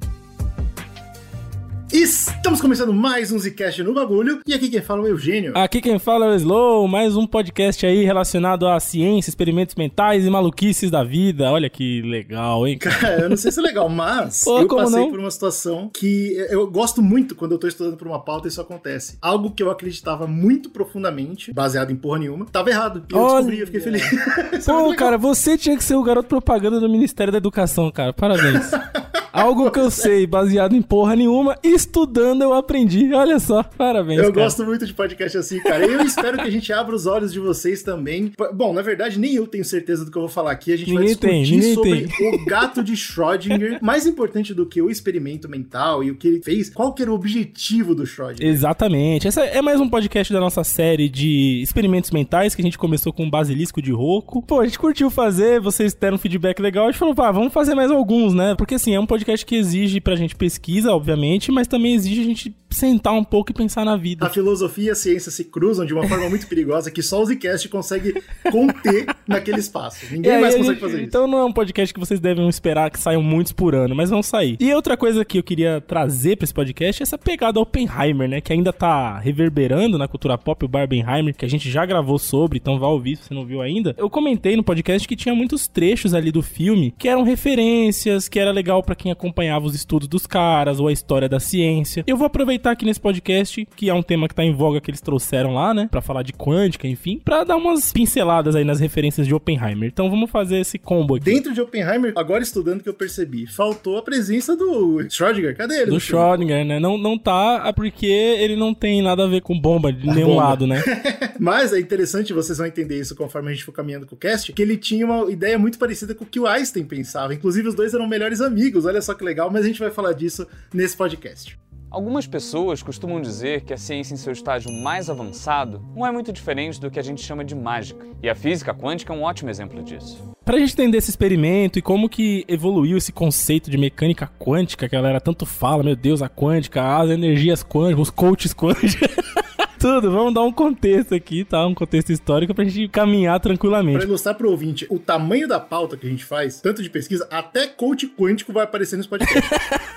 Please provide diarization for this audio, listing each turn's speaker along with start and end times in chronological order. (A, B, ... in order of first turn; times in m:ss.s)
0:01.9-0:05.6 A
0:05.5-0:13.4 B
0:12.8-0:25.2 A
0:14.4-0:15.2 B
0:23.1-0:28.8 B
0:28.4-0:30.1 A
0:29.3-0:34.6 B
0:34.2-0:48.6 A
0:35.7-0:36.3 B
0:40.9-0:42.8 B
0:48.4-1:04.3 B
1:04.2-1:11.2 A
1:10.2-1:41.4 B
1:41.2-1:46.4 A
1:45.9-1:50.9 B
1:50.1-2:01.6 A
2:01.9-2:10.2 C
2:10.5-2:24.1 B
2:23.9-2:29.5 A
2:29.3-2:29.8 B